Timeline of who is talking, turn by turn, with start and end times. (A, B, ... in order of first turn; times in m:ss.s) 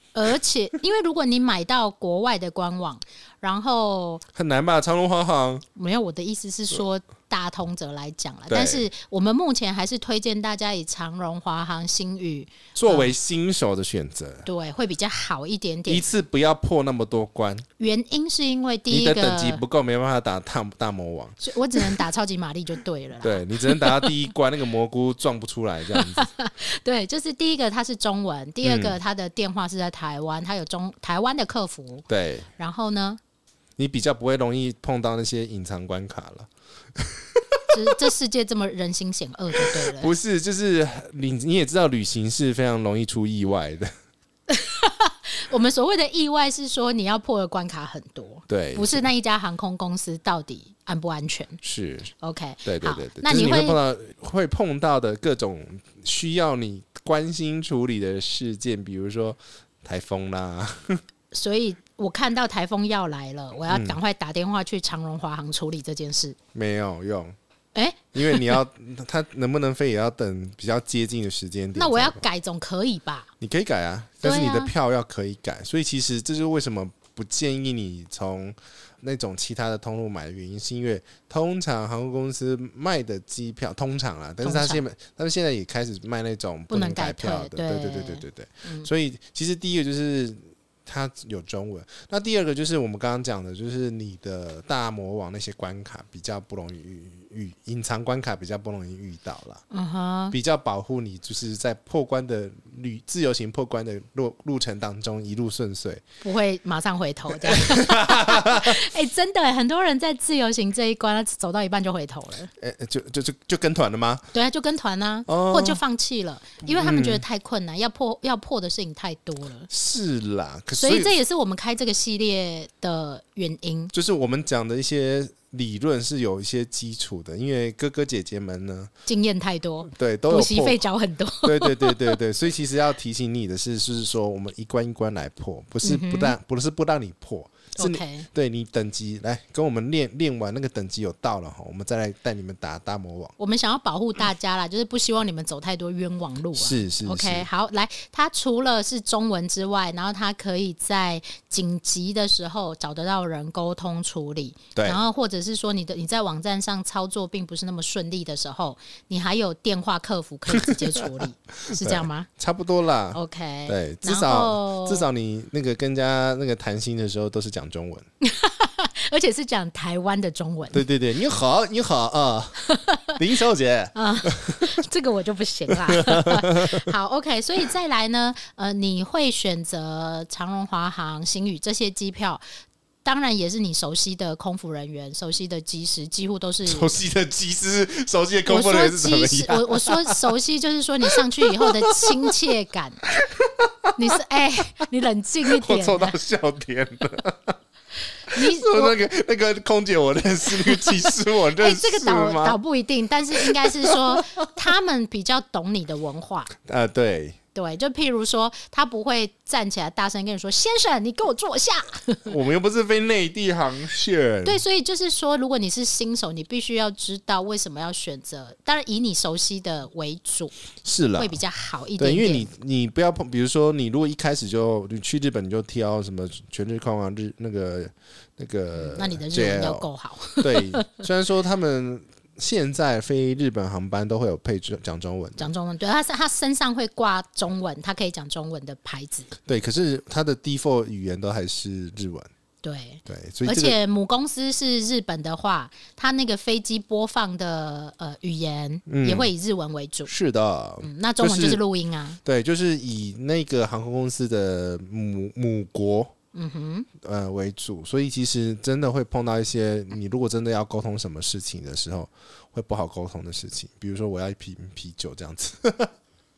0:00.1-0:04.2 A
0:04.3-0:05.6 B
0:05.7-0:13.1 A
0:08.5-0:08.8 B
0:12.7-0:14.5 B
0:14.4-0:16.0 A
0:15.9-0:17.6 B
0:17.8-0:19.6 A
0:18.9-0:22.0 B
0:21.4-0:24.1 A
0:23.2-0:26.3 B
0:25.9-0:32.0 A
0:28.6-0:28.9 B
0:32.1-0:32.5 B
0:32.6-0:33.2 A
0:33.8-0:37.6 B
0:37.7-0:40.1 A
0:39.5-0:43.9 B
0:44.5-0:51.6 A
0:48.5-0:49.0 B
0:51.6-0:52.1 B
0:52.2-0:53.8 A
0:52.6-1:01.0 B
1:01.3-1:06.4 A
1:03.7-1:04.0 B
1:06.5-1:07.3 B
1:07.7-1:08.6 A
1:08.1-1:12.2 B
1:11.7-1:13.3 A
1:13.4-1:39.6 B
1:14.2-1:14.7 A
1:24.4-1:24.8 A
1:26.7-1:28.9 A
1:39.7-1:40.3 A
1:40.3-1:46.0 B
1:46.2-1:52.5 A
1:47.4-1:48.8 B
1:52.6-1:54.2 B
1:54.3-1:59.7 A
1:55.3-1:55.8 B
1:56.7-1:57.2 B
1:59.7-2:01.1 B
2:00.8-2:03.9 A
2:03.9-2:08.9 B
2:09.0-2:12.2 A
2:09.9-2:10.8 B
2:11.4-2:23.3 B
2:15.8-2:16.3 A
2:17.8-2:18.3 A
2:23.4-2:42.3 A
2:26.6-2:27.5 B
2:34.7-2:35.0 B
2:40.6-2:41.0 B
2:41.7-2:48.0 B
2:43.1-2:45.1 A
2:48.2-2:50.8 A
2:50.7-2:52.6 B
2:52.6-2:53.2 A
2:53.2-2:54.7 B
2:53.9-3:02.4 A
2:55.7-2:56.9 B
3:03.0-3:07.0 A
3:06.6-3:10.3 B
3:08.5-3:13.0 A
3:11.0-3:12.3 B
3:13.1-3:13.9 B
3:14.0-3:16.2 A
3:15.4-3:17.5 B
3:18.3-3:22.6 B
3:18.3-3:19.0 A
3:20.6-3:26.5 A
3:23.3-3:24.4 B
3:26.6-3:27.4 B
3:27.5-3:32.3 A
3:32.2-3:34.6 B
3:34.4-3:40.5 A
3:40.8-3:41.4 B
3:41.2-3:42.5 A
3:42.0-3:55.5 B
3:48.7-3:51.0 A
3:55.4-3:59.3 A
3:59.5-4:02.3 B
4:02.6-4:10.1 A
4:03.1-4:03.8 B
4:08.9-4:09.3 B
4:10.1-4:11.6 B
4:10.8-4:12.2 A
4:12.2-4:16.1 B
4:16.3-4:16.9 A
4:17.0-4:25.9 B